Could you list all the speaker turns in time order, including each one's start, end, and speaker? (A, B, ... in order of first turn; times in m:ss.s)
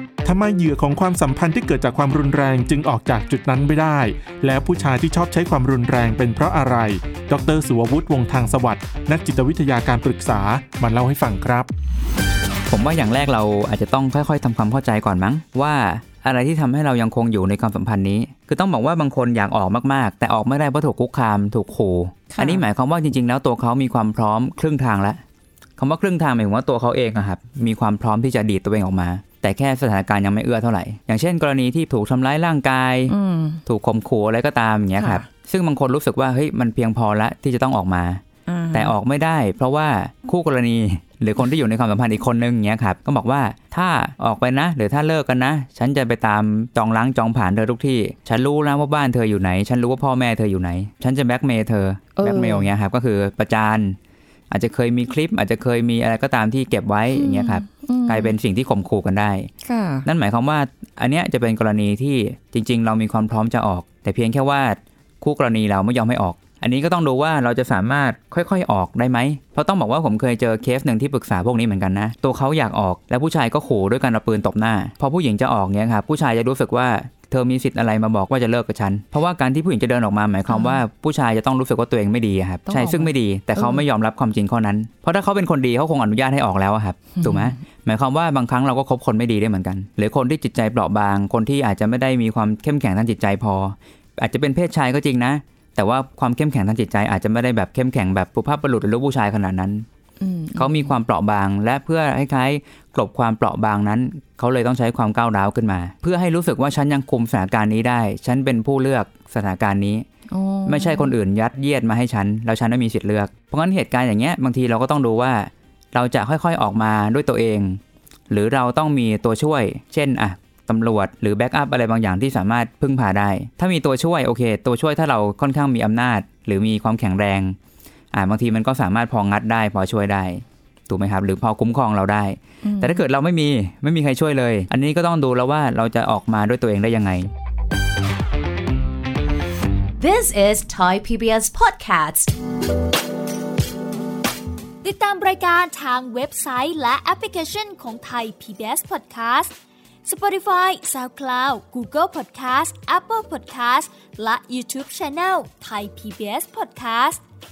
0:00.2-0:11.7 A
0:12.7-0:25.2 B
0:22.3-0:22.6 C
0:25.8-0:33.1 B
0:33.1-0:33.6 C
0:33.6-0:54.0 B
0:35.0-0:35.3 C
0:38.4-0:38.9 C
0:52.2-0:52.7 C
0:54.5-0:59.5 B
0:57.1-0:58.3 C
0:59.6-1:00.1 C
1:00.0-1:39.8 B
1:20.5-1:20.8 C
1:22.7-1:23.8 C
1:27.2-1:27.6 C
1:40.2-1:40.9 C
1:40.6-1:50.0 B
1:50.3-1:51.1 C
1:50.6-2:07.6 B
2:08.1-2:17.3 B
2:12.6-2:13.0 C
2:20.0-2:22.3 D
2:24.8-2:29.5 E
2:30.0-2:37.2 E